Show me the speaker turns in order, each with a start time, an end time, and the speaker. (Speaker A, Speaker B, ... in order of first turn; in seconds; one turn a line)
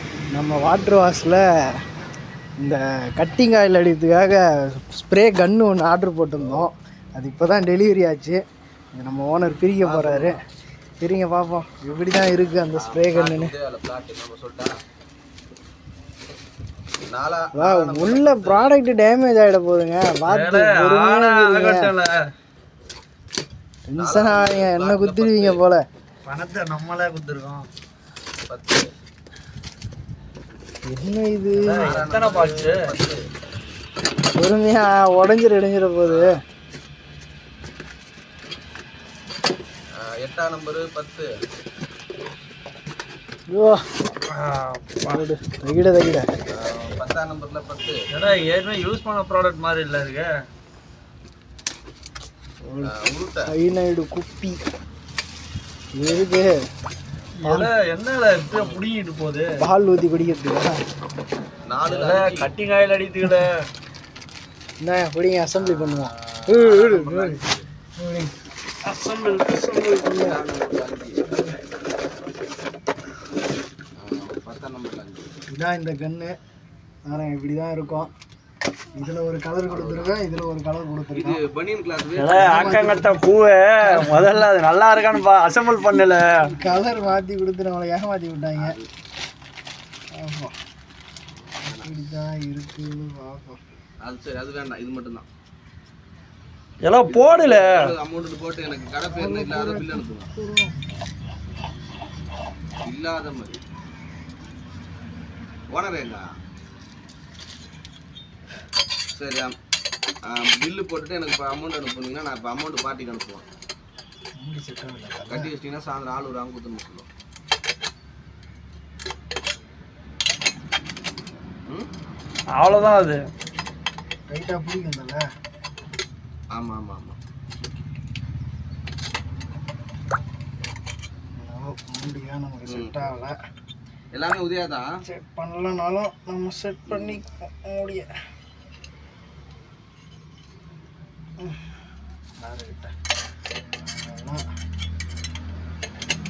Speaker A: 0.3-1.4
Speaker A: 2.6-8.4
Speaker B: 6.4-6.7
Speaker A: 9.0-10.4
Speaker B: 9.8-10.4
Speaker A: 11.0-13.5
Speaker B: 12.8-14.7
Speaker B: 17.1-18.7
Speaker A: 17.6-21.9
Speaker C: 20.3-22.1
Speaker A: 23.9-25.8
Speaker B: 24.0-25.6
Speaker C: 26.3-27.7
Speaker B: 28.5-28.9
Speaker A: 30.9-31.9
Speaker C: 31.6-32.8
Speaker B: 31.8-33.2
Speaker A: 34.4-36.4
Speaker B: 36.0-36.3
Speaker B: 40.0-41.3
Speaker A: 43.5-43.8
Speaker C: 44.3-45.2
Speaker A: 45.1-46.3
Speaker B: 46.5-48.0
Speaker C: 48.1-50.3
Speaker A: 52.6-52.9
Speaker B: 52.8-53.5
Speaker A: 53.5-54.6
Speaker A: 56.0-56.5
Speaker C: 57.4-59.5
Speaker A: 57.4-57.7
Speaker B: 58.5-58.8
Speaker A: 59.6-60.8
Speaker B: 61.7-62.5
Speaker C: 61.9-63.6
Speaker A: 64.8-67.4
Speaker B: 65.5-67.7
Speaker A: 68.0-68.3
Speaker C: 68.8-70.1
Speaker A: 69.7-70.4
Speaker B: 70.1-71.2
Speaker A: 71.2-71.5
Speaker B: 74.0-75.4
Speaker A: 75.5-76.4
Speaker A: 77.1-78.1
Speaker A: 79.0-81.4
Speaker B: 79.7-80.2
Speaker B: 81.2-82.9
Speaker C: 82.2-86.3
Speaker A: 82.4-83.2
Speaker A: 83.8-84.4
Speaker A: 86.5-88.7
Speaker B: 86.5-87.2
Speaker B: 88.6-88.9
Speaker A: 90.2-90.5
Speaker B: 91.4-91.9
Speaker A: 91.7-93.6
Speaker B: 94.0-95.3
Speaker C: 96.8-97.8
Speaker B: 97.1-100.3
Speaker A: 99.1-100.8
Speaker B: 102.9-103.6
Speaker B: 105.7-106.2
Speaker B: 109.2-109.5
Speaker B: 110.3-113.5
Speaker A: 114.4-115.5
Speaker B: 115.3-117.1
Speaker C: 122.5-123.2
Speaker A: 124.3-125.2
Speaker B: 126.5-127.2
Speaker A: 131.4-133.4
Speaker B: 132.7-133.1
Speaker B: 134.1-134.9
Speaker A: 135.0-138.1
Speaker B: 136.9-137.2
Speaker A: 142.4-142.9
Speaker A: 143.8-144.4